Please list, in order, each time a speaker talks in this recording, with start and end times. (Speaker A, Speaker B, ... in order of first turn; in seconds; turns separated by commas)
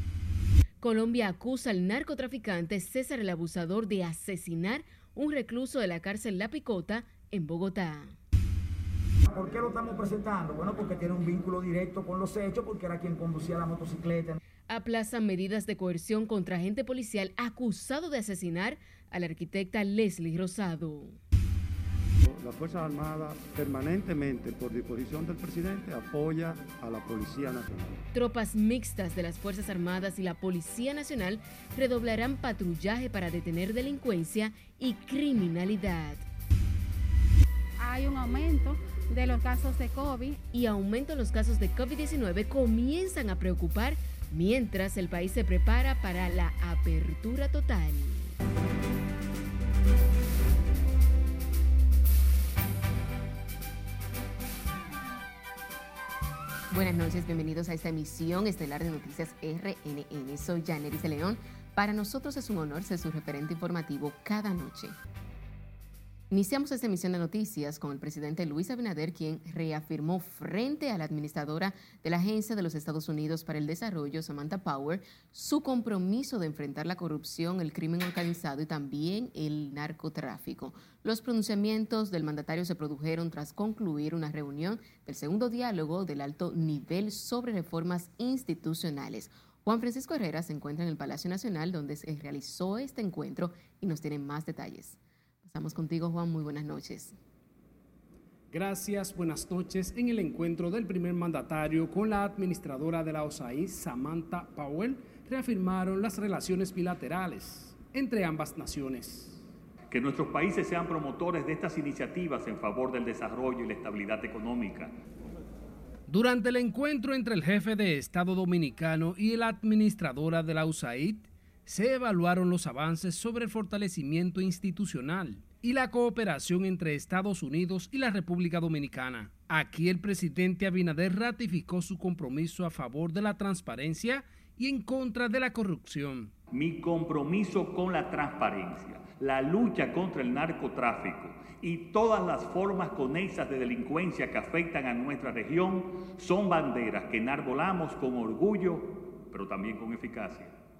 Speaker A: 0.8-8.2, Speaker B: 9.3-14.4, Speaker A: 14.7-21.2, Speaker C: 22.2-28.0, Speaker A: 28.1-36.2, Speaker D: 37.8-40.4, Speaker A: 40.5-48.3, Speaker A: 56.7-65.0, Speaker A: 66.3-97.2, Speaker E: 98.5-109.4, Speaker F: 109.9-115.0, Speaker E: 116.1-136.3, Speaker F: 136.5-150.5